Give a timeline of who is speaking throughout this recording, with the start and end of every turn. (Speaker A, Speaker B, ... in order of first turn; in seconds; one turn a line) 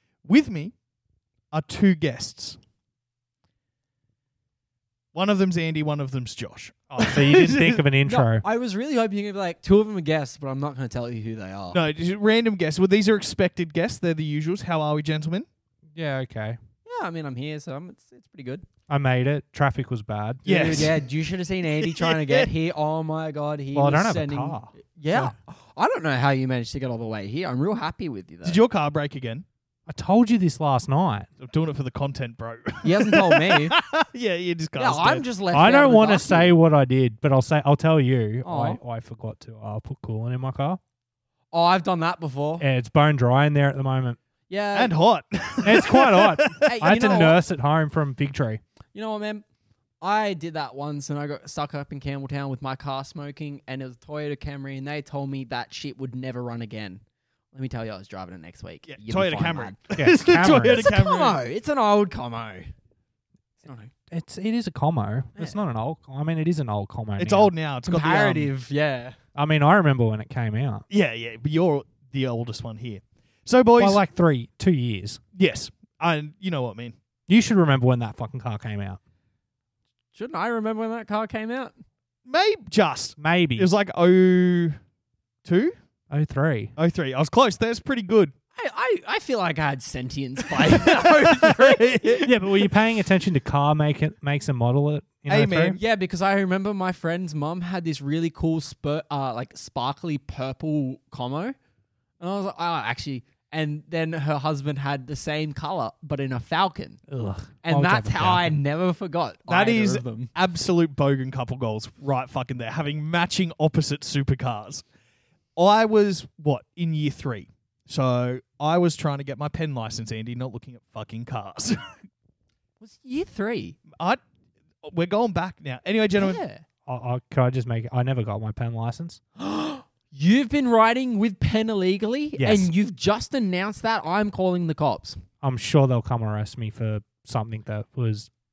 Speaker A: 0.2-0.7
Speaker A: 1.5-2.6
Speaker A: 5.1-7.8
Speaker B: 7.0-8.4
Speaker C: 8.1-11.8
Speaker A: 11.7-15.5
Speaker B: 15.9-16.6
Speaker C: 16.9-18.6
Speaker B: 18.9-20.4
Speaker C: 20.4-28.6
Speaker A: 20.5-21.1
Speaker A: 21.8-22.5
Speaker B: 23.7-25.3
Speaker A: 28.4-29.4
Speaker B: 29.9-31.3
Speaker A: 31.4-35.3
Speaker C: 32.8-33.8
Speaker C: 34.8-36.5
Speaker B: 35.5-40.8
Speaker C: 38.4-38.8
Speaker C: 41.5-42.6
Speaker B: 42.6-44.2
Speaker C: 44.5-44.9
Speaker A: 44.8-46.6
Speaker B: 45.6-48.6
Speaker C: 46.6-47.4
Speaker C: 48.9-49.4
Speaker C: 50.0-57.0
Speaker C: 57.5-62.7
Speaker A: 58.9-61.4
Speaker B: 60.0-60.9
Speaker C: 63.6-63.9
Speaker B: 64.1-67.5
Speaker A: 67.2-68.5
Speaker C: 67.8-69.2
Speaker B: 69.3-70.8
Speaker A: 70.9-74.0
Speaker B: 73.8-75.2
Speaker A: 75.3-77.0
Speaker B: 77.3-79.0
Speaker C: 80.1-81.7
Speaker A: 82.3-84.8
Speaker B: 83.2-83.7
Speaker A: 85.5-85.8
Speaker B: 86.1-86.7
Speaker A: 86.8-88.3
Speaker C: 88.5-92.3
Speaker A: 90.5-92.3
Speaker B: 92.2-95.8
Speaker A: 95.3-95.8
Speaker C: 95.8-101.6
Speaker C: 102.2-107.0
Speaker B: 107.1-108.5
Speaker C: 107.6-110.3
Speaker A: 109.5-114.8
Speaker A: 115.6-122.0
Speaker C: 122.8-123.8
Speaker A: 124.8-126.4
Speaker C: 126.2-126.6
Speaker B: 126.9-129.2
Speaker C: 129.4-135.2
Speaker B: 132.4-132.7
Speaker B: 135.4-138.3